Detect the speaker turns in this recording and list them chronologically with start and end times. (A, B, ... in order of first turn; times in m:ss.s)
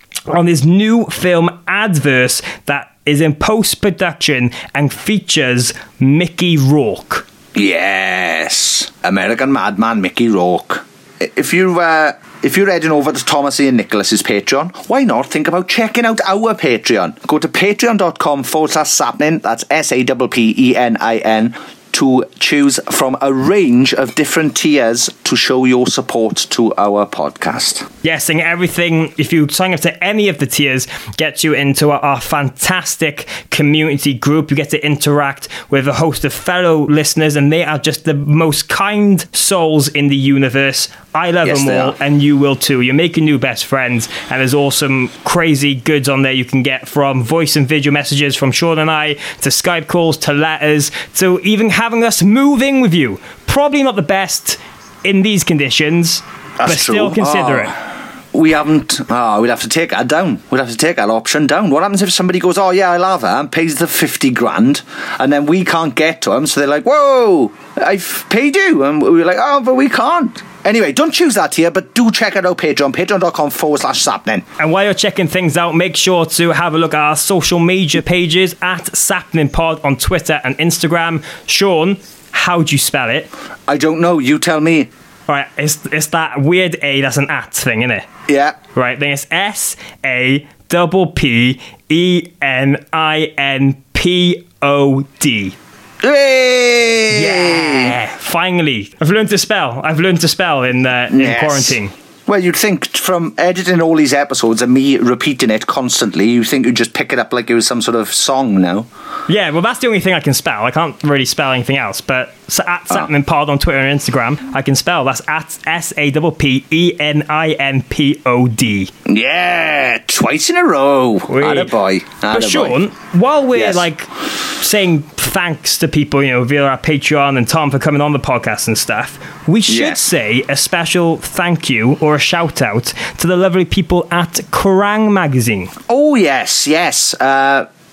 0:00.3-0:07.2 A
0:07.5-0:27.8 B
0:28.0-0:57.7 A
0:41.4-0:41.9 B
0:56.6-0:57.8 B
0:58.3-1:14.4 B
1:14.6-1:23.3 A
1:23.7-1:24.9 B
1:25.3-1:28.1 A
1:28.3-1:28.6 B
1:28.8-1:35.5 A
1:36.0-1:38.0 B
1:37.1-1:41.9 A
1:41.1-1:48.9 B
1:49.3-1:58.9 A
1:59.1-2:02.8 B
2:01.3-2:01.7 A
2:02.2-2:15.7 A
2:03.5-2:03.8 B
2:09.7-2:10.0 B
2:15.9-2:17.7 B